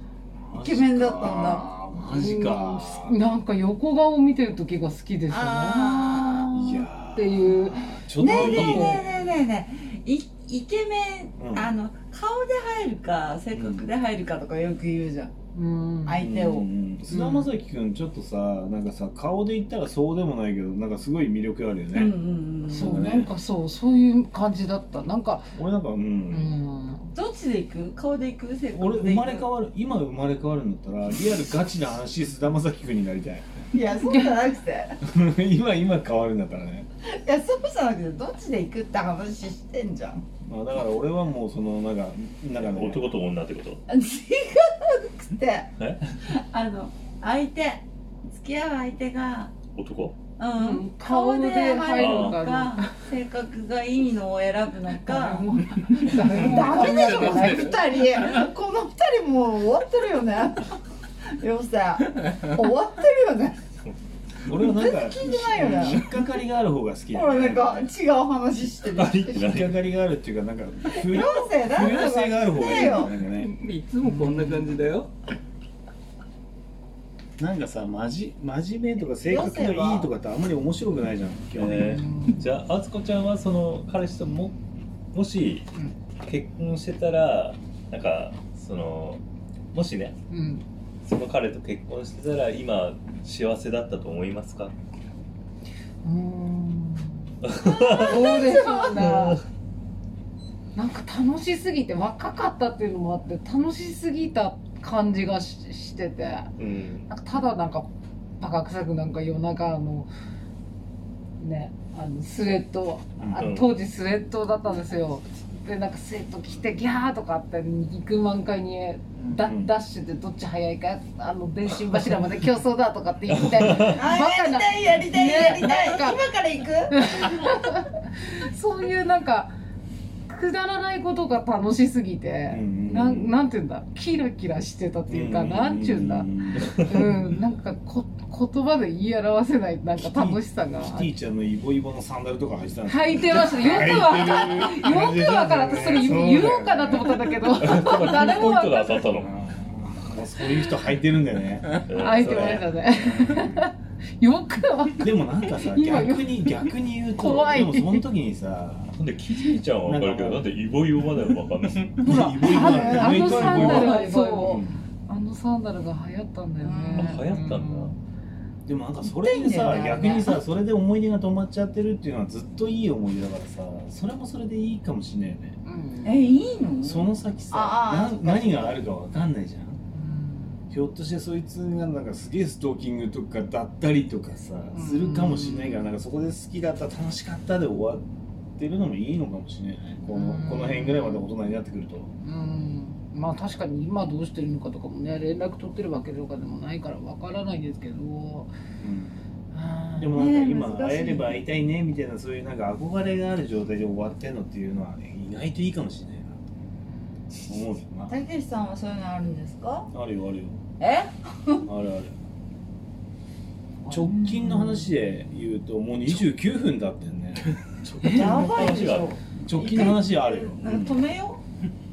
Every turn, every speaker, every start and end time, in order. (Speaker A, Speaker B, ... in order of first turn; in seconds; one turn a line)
Speaker A: 0.4-3.1
Speaker B: 0.6-1.7
Speaker C: 2.1-9.0
Speaker B: 5.3-6.7
Speaker A: 6.5-9.1
Speaker B: 8.2-15.3
Speaker A: 11.4-11.7
Speaker A: 13.5-13.9
Speaker C: 15.5-16.2
Speaker B: 16.0-16.7
Speaker A: 16.2-23.3
Speaker C: 17.1-17.5
Speaker B: 21.9-23.3
Speaker C: 22.7-25.5
Speaker A: 25.5-26.5
Speaker C: 26.3-27.1
Speaker B: 27.1-29.5
Speaker A: 28.7-33.5
Speaker B: 33.7-35.0
Speaker C: 34.0-34.3
Speaker A: 35.0-36.9
Speaker B: 37.0-40.2
Speaker A: 40.4-43.1
Speaker D: 42.6-43.8
Speaker B: 43.9-45.7
Speaker D: 45.8-46.1
Speaker B: 46.2-49.5
Speaker D: 49.7-50.1
Speaker B: 50.4-60.8
Speaker C: 50.6-53.0
Speaker D: 51.9-52.4
Speaker C: 55.0-57.8
Speaker E: 56.7-57.7
Speaker B: 61.4-63.6
Speaker A: 64.4-67.8
Speaker B: 64.6-66.2
Speaker B: 67.1-69.5
Speaker D: 68.9-69.8
Speaker A: 69.3-73.5
Speaker B: 70.9-73.2
Speaker E: 73.3-75.1
Speaker C: 74.0-74.7
Speaker A: 77.4-82.0
Speaker B: 79.2-80.1
Speaker D: 81.5-84.5
Speaker C: 81.7-82.5
Speaker D: 85.1-85.7
Speaker D: 86.2-89.2
Speaker D: 89.7-90.2
Speaker C: 90.3-90.6
Speaker D: 91.0-94.7
Speaker C: 96.0-97.2
Speaker D: 97.4-99.4
Speaker B: 97.6-99.0
Speaker C: 98.0-99.4
Speaker C: 100.7-106.5
Speaker D: 106.6-107.0
Speaker C: 107.1-107.9
Speaker C: 108.4-110.1
Speaker C: 111.4-126.2
Speaker A: 113.2-113.5
Speaker D: 113.4-113.7
Speaker A: 119.4-119.7
Speaker D: 123.5-123.9
Speaker B: 123.8-127.4
Speaker C: 126.9-129.5
Speaker C: 130.3-141.1
Speaker A: 132.5-133.3
Speaker A: 135.1-136.9
Speaker A: 139.9-148.0
Speaker C: 142.9-149.1
Speaker D: 147.5-149.3
Speaker A: 149.0-153.7
Speaker D: 151.9-152.6
Speaker C: 151.9-158.1
Speaker A: 155.0-158.9
Speaker D: 159.0-162.0
Speaker A: 159.8-160.4
Speaker A: 162.0-164.7
Speaker C: 162.0-167.9
Speaker B: 162.4-164.6
Speaker B: 166.6-167.2
Speaker D: 166.9-167.9
Speaker A: 168.7-175.6
Speaker B: 169.0-170.4
Speaker C: 175.6-176.3
Speaker B: 176.0-178.8
Speaker A: 176.8-179.8
Speaker C: 179.9-180.6
Speaker A: 180.7-192.1
Speaker C: 184.7-185.9
Speaker C: 190.1-191.3
Speaker C: 192.2-198.5
Speaker A: 198.8-199.2
Speaker C: 199.5-200.1
Speaker A: 199.9-206.4
Speaker B: 200.1-201.4
Speaker A: 207.4-208.1
Speaker B: 208.1-209.9
Speaker A: 209.9-210.6
Speaker B: 210.8-211.7
Speaker A: 211.6-212.1
Speaker B: 213.8-214.9
Speaker A: 213.9-217.4
Speaker D: 217.8-219.2
Speaker B: 218.0-221.4
Speaker A: 219.4-221.0